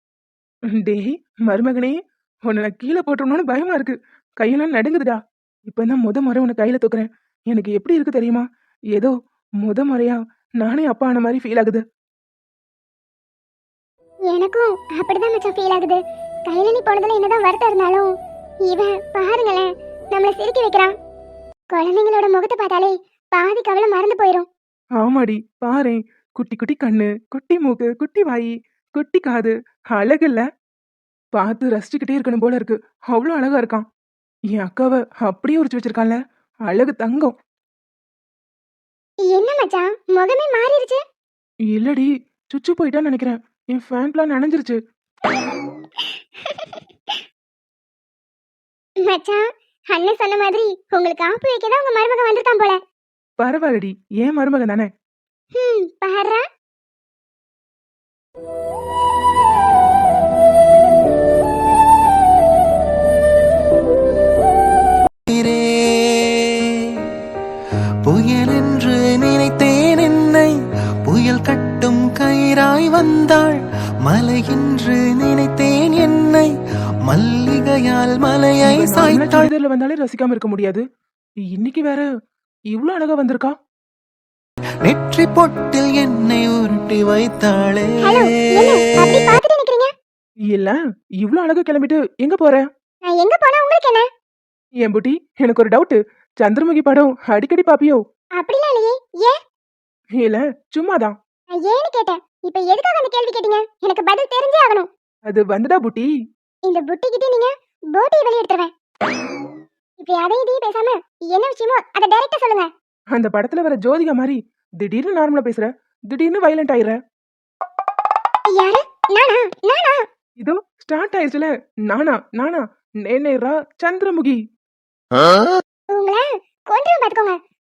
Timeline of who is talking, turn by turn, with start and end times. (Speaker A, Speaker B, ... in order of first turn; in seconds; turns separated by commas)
Speaker A: 0.8-1.9, Speaker A: 2.5-11.8, Speaker B: 14.3-18.1, Speaker B: 18.7-20.9, Speaker B: 21.7-24.5, Speaker A: 25.0-30.4, Speaker A: 31.3-33.8, Speaker A: 34.5-37.3, Speaker B: 39.3-41.0, Speaker A: 41.7-44.8, Speaker B: 49.1-52.8, Speaker A: 53.4-54.9, Speaker B: 55.6-56.4, Speaker C: 65.3-67.0, Speaker C: 68.1-70.5, Speaker C: 71.1-76.5, Speaker C: 77.1-79.5, Speaker A: 78.6-80.8, Speaker A: 81.5-82.0, Speaker A: 82.7-83.5, Speaker C: 84.8-88.8, Speaker B: 88.0-89.9, Speaker A: 90.5-92.6, Speaker B: 93.0-94.0, Speaker A: 94.8-98.0, Speaker B: 98.4-99.4, Speaker A: 100.2-101.1, Speaker B: 101.6-104.9, Speaker A: 105.3-106.1, Speaker B: 106.7-108.7, Speaker B: 110.0-112.7, Speaker A: 113.1-117.0, Speaker B: 118.5-120.0, Speaker A: 120.4-124.4, Speaker B: 125.9-127.4